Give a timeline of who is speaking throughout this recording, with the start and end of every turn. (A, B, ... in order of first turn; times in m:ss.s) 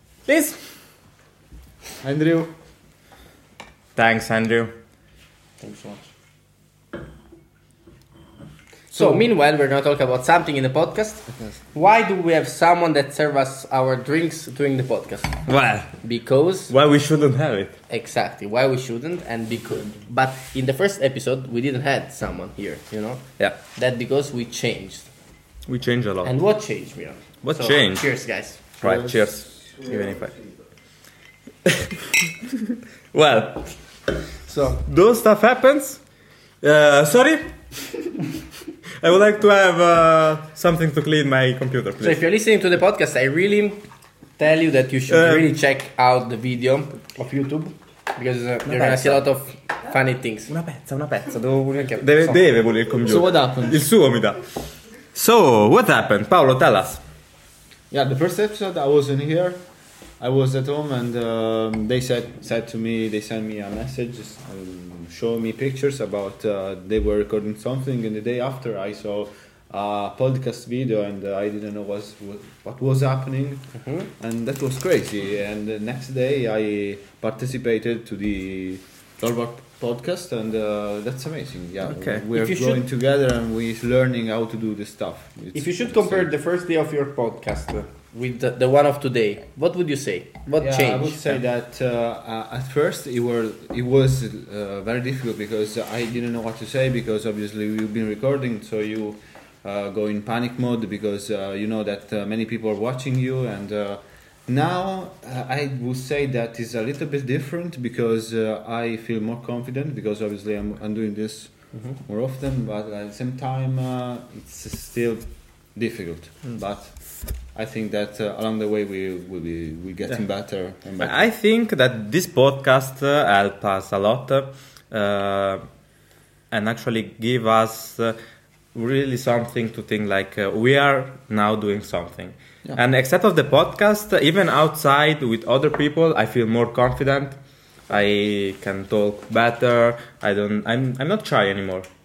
0:00.2-0:00.6 A
0:02.0-0:02.6 B
0:04.0-0:04.7 C
0:05.6-0:06.1 A
0:08.9-0:16.9 A
0:08.9-0:09.2 B
0:15.4-0:17.8 C
0:17.9-0:25.1 A
0:25.7-0:26.5 C
0:26.2-0:28.8 A
0:27.4-0:30.5 C
0:28.8-0:29.3 B
0:33.1-0:34.1 C
0:34.5-0:34.8 A
0:34.8-0:38.0 C
0:39.0-0:42.2 C
0:42.0-0:50.5 A
0:45.1-0:45.4 C
0:48.6-0:49.3 C
0:50.5-0:57.0 C
0:51.8-0:52.3 A
0:53.0-0:53.8 B
0:57.9-1:26.3 B
1:13.8-1:14.1 A
1:21.8-1:22.2 C
1:22.3-1:22.8 A
1:25.5-1:31.4 A
1:30.6-2:01.3 B
2:00.1-2:05.8 C
2:06.5-2:08.2 C
2:08.7-2:21.9 C